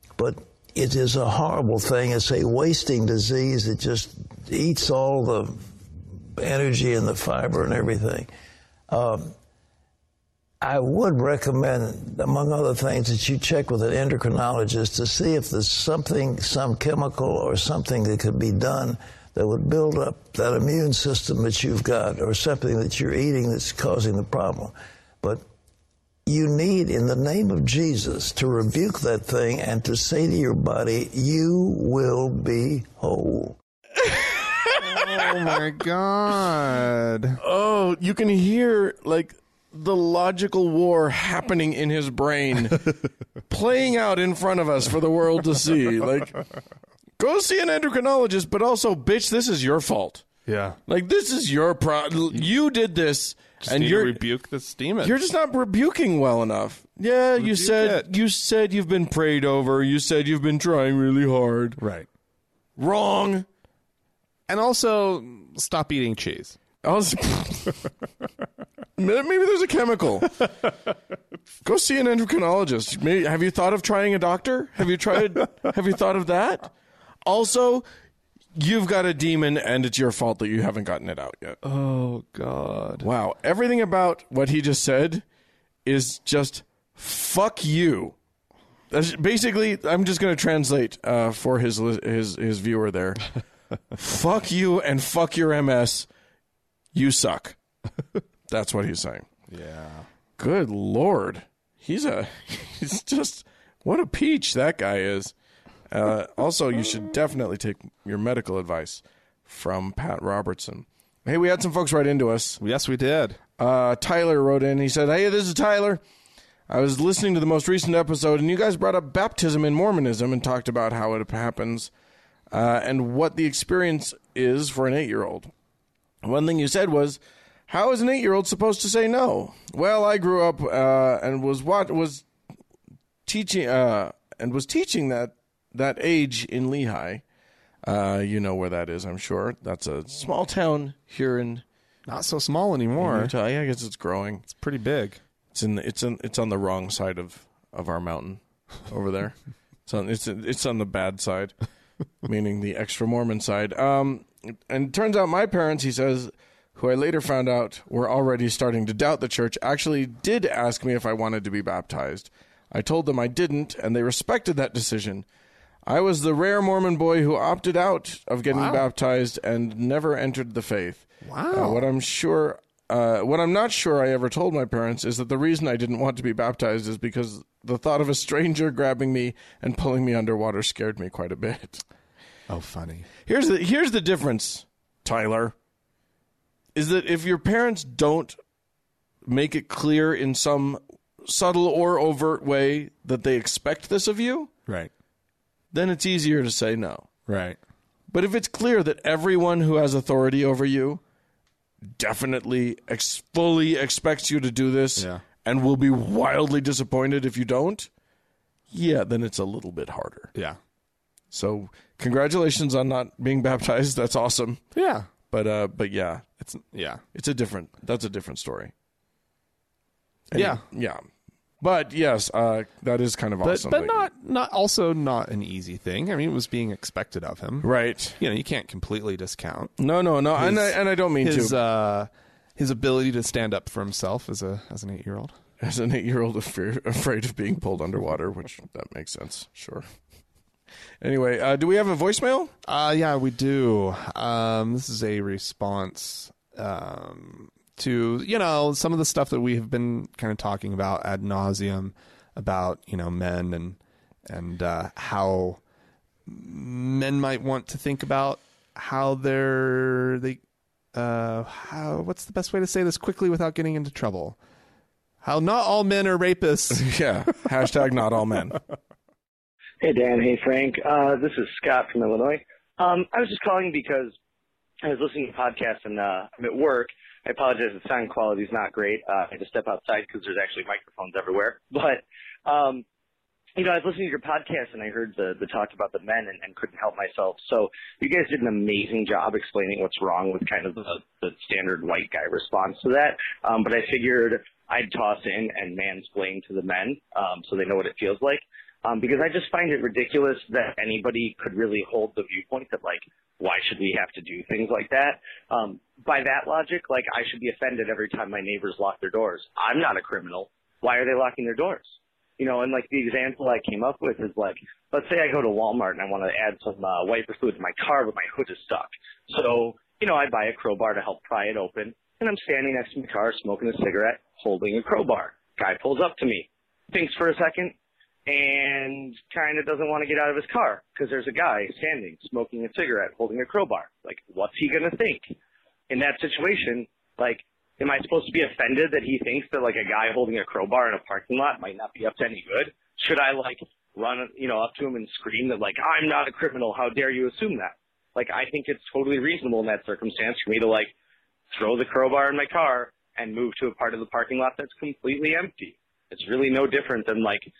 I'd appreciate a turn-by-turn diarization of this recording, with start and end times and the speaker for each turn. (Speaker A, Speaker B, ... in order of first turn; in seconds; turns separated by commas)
Speaker A: 0.2-5.6, Speaker A: 6.3-8.3, Speaker A: 8.9-9.3, Speaker A: 10.6-25.4, Speaker A: 26.2-33.6, Speaker B: 34.0-35.5, Speaker C: 34.8-37.4, Speaker B: 37.4-42.9, Speaker B: 43.5-46.4, Speaker B: 47.2-50.2, Speaker C: 50.5-50.8, Speaker B: 50.9-54.2, Speaker C: 53.6-55.1, Speaker B: 55.0-61.8, Speaker C: 57.4-58.1, Speaker C: 61.8-62.1, Speaker B: 62.8-63.5, Speaker C: 64.5-66.6, Speaker B: 66.8-67.8, Speaker B: 69.0-70.4, Speaker B: 71.6-76.7, Speaker B: 77.2-77.8, Speaker B: 78.5-81.6, Speaker C: 81.6-83.1, Speaker B: 83.0-85.2, Speaker B: 85.8-88.1, Speaker B: 88.9-93.3, Speaker B: 93.9-96.1, Speaker B: 96.9-97.6, Speaker B: 98.5-99.3, Speaker C: 99.5-100.0, Speaker B: 100.4-105.3, Speaker B: 105.9-112.6, Speaker C: 112.6-113.4, Speaker B: 113.6-116.0, Speaker B: 116.7-121.9, Speaker B: 122.5-125.5, Speaker B: 126.2-132.2, Speaker B: 133.2-137.2, Speaker B: 137.8-141.6, Speaker C: 142.1-143.3, Speaker B: 143.0-144.4, Speaker C: 144.5-145.2, Speaker B: 145.5-151.5, Speaker B: 152.2-165.2, Speaker B: 165.8-181.8, Speaker C: 168.5-168.8, Speaker C: 171.2-171.8, Speaker C: 182.5-183.1, Speaker B: 183.2-185.5, Speaker B: 186.7-188.4, Speaker B: 189.2-194.5, Speaker B: 195.7-197.1, Speaker C: 197.3-197.6, Speaker B: 198.1-201.0, Speaker B: 201.9-207.9, Speaker C: 205.0-205.2, Speaker B: 208.7-210.3, Speaker B: 211.3-214.6, Speaker C: 214.7-215.1, Speaker B: 215.3-216.2, Speaker C: 216.4-217.0, Speaker B: 217.1-218.7, Speaker B: 220.3-221.0, Speaker C: 220.3-220.6, Speaker B: 221.6-224.1, Speaker C: 223.4-229.7, Speaker B: 227.6-228.2, Speaker B: 229.8-231.6, Speaker C: 230.3-235.3, Speaker B: 235.6-239.8, Speaker B: 241.0-242.5, Speaker C: 242.6-255.6, Speaker C: 256.3-260.4, Speaker C: 260.9-264.4, Speaker C: 265.2-266.9, Speaker B: 266.7-268.6, Speaker D: 269.8-274.1, Speaker D: 274.8-282.8, Speaker D: 283.6-327.7, Speaker D: 328.3-335.3, Speaker D: 335.9-350.9, Speaker D: 351.5-357.5